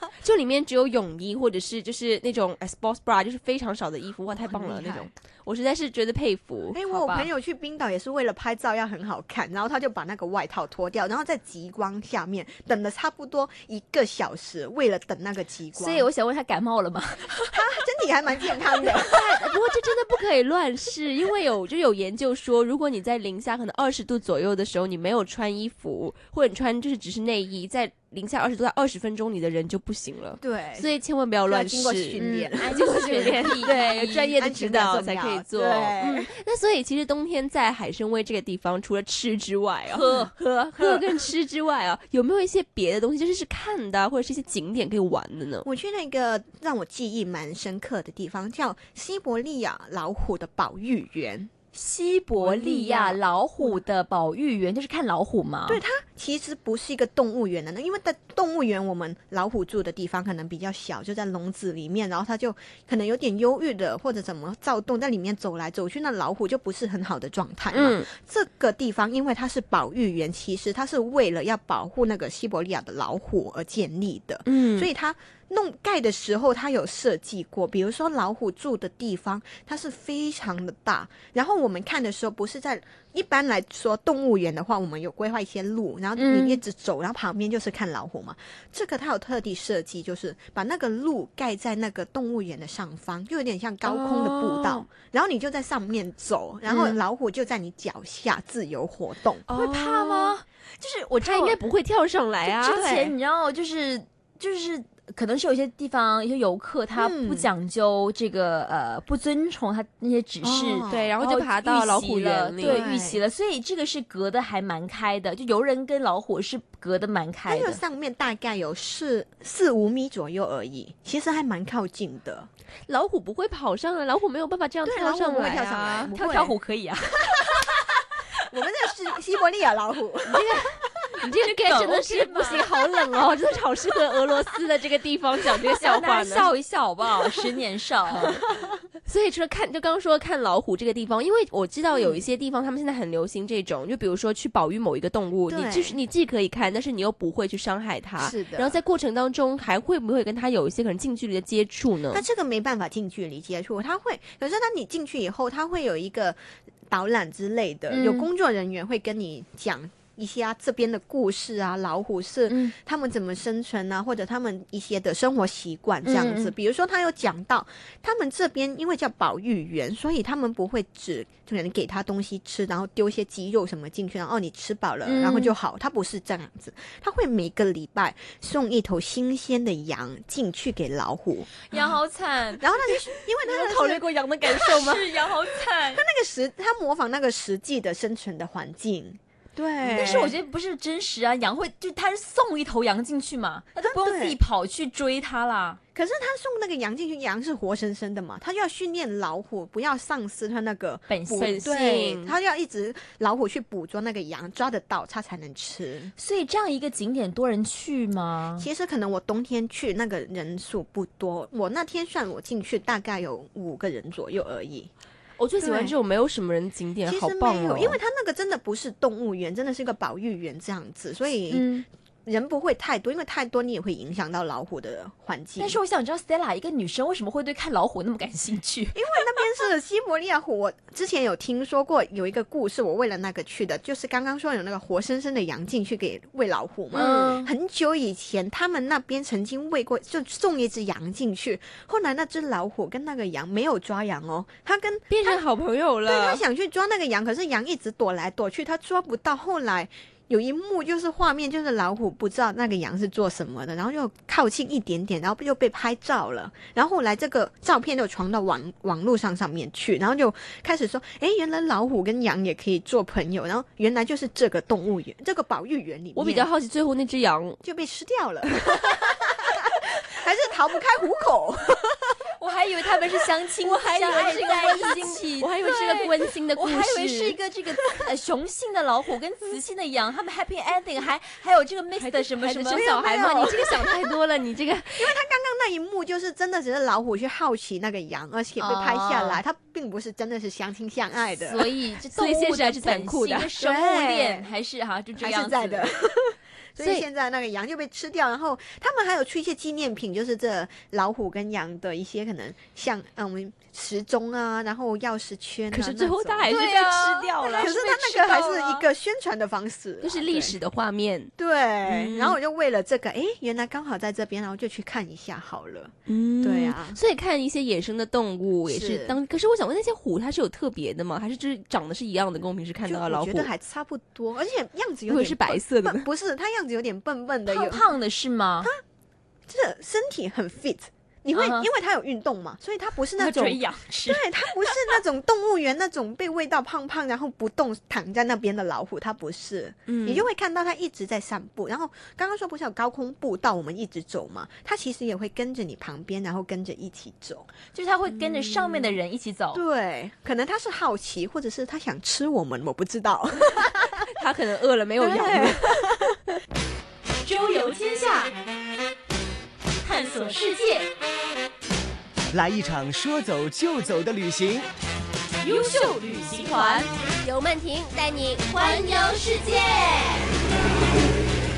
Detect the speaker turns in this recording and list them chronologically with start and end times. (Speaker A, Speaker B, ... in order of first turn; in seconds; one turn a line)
Speaker A: 0.2-6.8
Speaker B: 4.3-5.1
Speaker B: 6.7-16.1
Speaker C: 6.8-7.3
Speaker C: 15.7-17.5
Speaker B: 17.5-19.4
Speaker A: 19.0-45.6
Speaker B: 30.4-30.9
Speaker B: 31.4-33.7
Speaker C: 32.2-34.3
Speaker B: 34.3-36.3
Speaker C: 39.9-40.3
Speaker B: 45.6-51.5
Speaker C: 51.7-55.8
Speaker B: 52.4-53.8
Speaker B: 55.7-99.5
Speaker A: 67.7-68.1
Speaker A: 74.5-74.9
Speaker C: 86.2-86.6
Speaker A: 93.8-94.8
Speaker A: 99.5-100.4
Speaker C: 99.5-101.6
Speaker A: 101.2-102.8
Speaker C: 102.4-117.8
Speaker B: 102.7-103.1
Speaker B: 107.0-107.5
Speaker B: 110.4-111.1
Speaker A: 110.9-112.8
Speaker B: 112.6-113.2
Speaker B: 117.5-122.5
Speaker A: 122.9-126.1
Speaker B: 124.8-126.5
Speaker C: 126.1-127.5
Speaker B: 128.5-130.6
Speaker A: 130.2-136.5
Speaker C: 131.4-132.7
Speaker C: 135.8-138.3
Speaker A: 138.1-138.4
Speaker A: 139.1-152.2
Speaker B: 141.9-142.2
Speaker B: 145.5-146.0
Speaker B: 148.2-148.8
Speaker B: 152.1-156.4
Speaker B: 156.9-181.9
Speaker C: 157.9-158.3
Speaker C: 162.5-162.7
Speaker C: 166.0-166.5
Speaker C: 175.0-175.5
Speaker C: 181.7-182.6
Speaker B: 182.6-184.1
Speaker C: 183.5-186.0
Speaker A: 183.6-185.0
Speaker B: 184.7-185.0
Speaker B: 185.8-190.3
Speaker C: 189.9-195.8
Speaker B: 193.8-194.4
Speaker B: 195.9-206.1
Speaker C: 201.1-201.7
Speaker A: 201.6-202.3
Speaker C: 206.2-208.7
Speaker B: 208.6-214.9
Speaker A: 215.4-218.0
Speaker B: 215.6-215.9
Speaker B: 217.1-221.7
Speaker C: 221.5-221.8
Speaker B: 222.2-225.8
Speaker C: 225.6-229.0
Speaker B: 228.9-245.4
Speaker A: 236.9-237.4
Speaker C: 236.9-237.5
Speaker A: 245.1-246.4
Speaker B: 246.1-266.5
Speaker A: 266.1-267.6
Speaker B: 267.6-272.1
Speaker C: 272.4-282.9
Speaker A: 273.6-277.4
Speaker A: 282.0-285.2
Speaker B: 282.7-284.1
Speaker B: 285.0-291.7
Speaker C: 288.6-289.4
Speaker C: 291.4-295.9
Speaker A: 292.1-293.5
Speaker B: 293.6-294.5
Speaker B: 295.2-306.9
Speaker A: 296.8-297.0
Speaker A: 305.7-308.9
Speaker C: 306.5-307.7
Speaker B: 307.5-310.6
Speaker A: 310.0-311.3
Speaker B: 311.4-317.0
Speaker A: 311.8-312.4
Speaker A: 316.1-323.5
Speaker B: 318.7-319.2
Speaker B: 322.8-327.8
Speaker A: 325.1-326.1
Speaker C: 327.5-328.7
Speaker B: 329.5-347.5
Speaker C: 331.3-331.7
Speaker C: 333.2-334.3
Speaker A: 339.9-340.2
Speaker C: 347.7-349.6
Speaker B: 349.5-354.1
Speaker A: 354.1-356.1
Speaker B: 355.0-356.2
Speaker C: 357.2-358.3
Speaker C: 359.8-360.9
Speaker D: 362.3-364.7
Speaker C: 365.4-366.9
Speaker A: 367.2-368.3
Speaker E: 367.2-370.1
Speaker C: 368.9-369.8